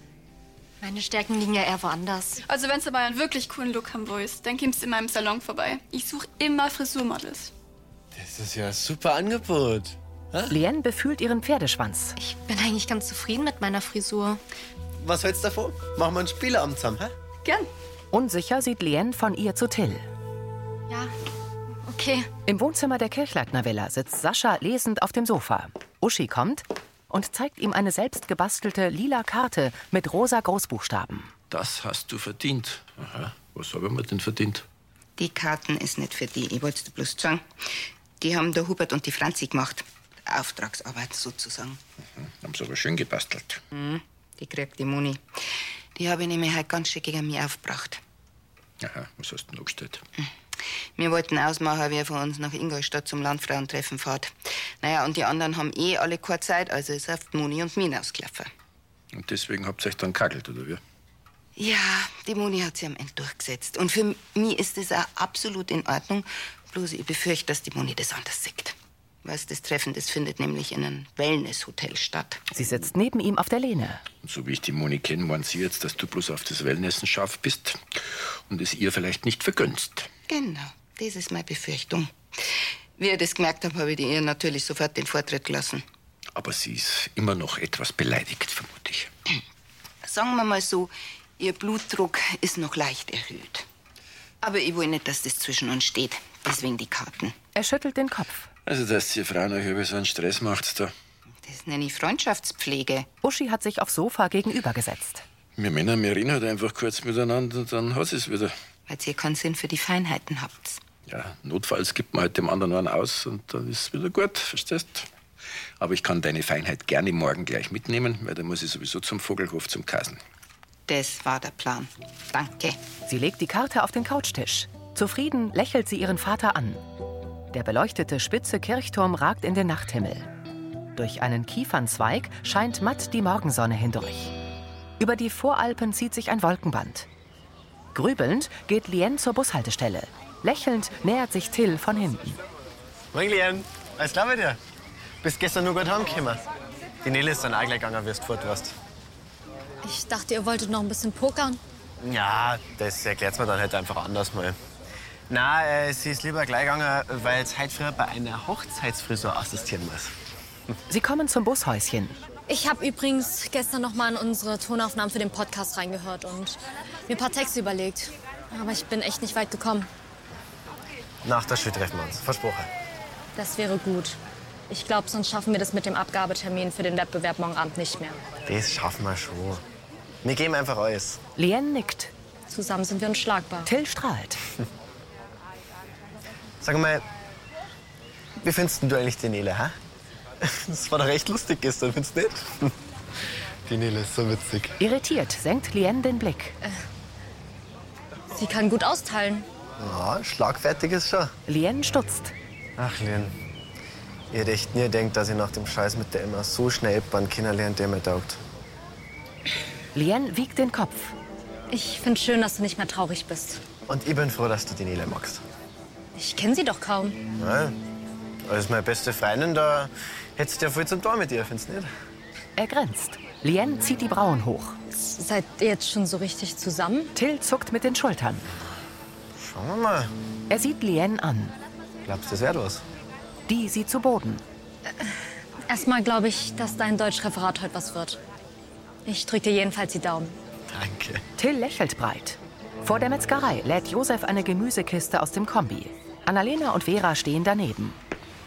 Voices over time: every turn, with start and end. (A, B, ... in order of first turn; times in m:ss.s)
0:00.8-0:02.4 A
0:02.5-0:07.5 B
0:08.1-0:10.5 C
0:10.5-0:12.2 D
0:12.2-0:14.4 A
0:15.0-0:17.1 C
0:18.1-0:20.0 D
0:21.8-0:22.3 A
0:22.4-0:31.3 D
0:31.5-0:34.6 E
0:35.2-0:41.8 F
0:42.2-0:43.6 E
0:43.7-0:45.2 F
0:46.0-0:48.0 F
0:48.8-0:50.0 E
0:51.0-0:58.5 F
0:59.1-1:00.8 E
1:01.6-1:12.4 F
1:12.5-1:14.0 D
1:14.2-1:20.1 E
1:20.3-1:25.8 F
1:26.3-1:29.1 E
1:30.0-1:33.6 F
1:34.4-1:37.3 F
1:37.5-1:38.5 D
1:38.6-1:40.9 E
1:41.4-1:43.1 F
1:43.2-1:45.2 D
1:45.6-1:48.5 E
1:48.9-1:50.8 F
1:51.1-1:55.1 E
1:55.8-2:00.2 E
2:00.9-2:02.8 F
2:03.1-2:06.8 D
2:07.5-2:10.3 D
2:10.9-2:14.3 D
2:15.0-2:17.1 D
2:17.9-2:22.4 D
2:23.1-2:24.6 C
2:25.2-2:26.4 C
2:27.0-2:28.7 C
2:29.8-2:31.6 G
2:32.0-2:34.6 C
2:35.3-2:40.1 C
2:40.9-2:42.2 D
2:42.5-2:49.9 G
2:51.2-2:52.7 C
2:53.4-2:54.2 G
2:54.7-2:58.2 G
2:58.4-2:59.6 C
3:00.2-3:01.2 C
3:01.4-3:02.1 D
3:02.5-3:03.7 G
3:03.6-3:04.4 D
3:06.6-3:07.0 C
3:08.4-3:09.7 C
3:10.4-3:12.7 C
3:13.6-3:14.8 C
3:14.8-3:16.6 D
3:18.3-3:19.4 G
3:19.8-3:21.3 C
3:21.5-3:22.3 D
3:22.8-3:23.3 C
3:24.3-3:28.4 C
3:29.9-3:31.1 D
3:31.7-3:33.6 G
3:33.9-3:35.4 C
3:36.2-3:37.2 G
3:37.4-3:37.8 C
3:38.4-3:41.9 C
3:42.6-3:44.8 D
3:44.9-3:47.1 G
3:47.1-3:48.4 D
3:49.4-3:50.1 C
3:50.5-3:51.5 D
3:52.0-3:52.8 C
3:53.5-3:54.4 D
3:55.7-3:58.2 G
3:59.0-4:00.4 G
4:00.7-4:01.2 C
4:01.4-4:08.0 D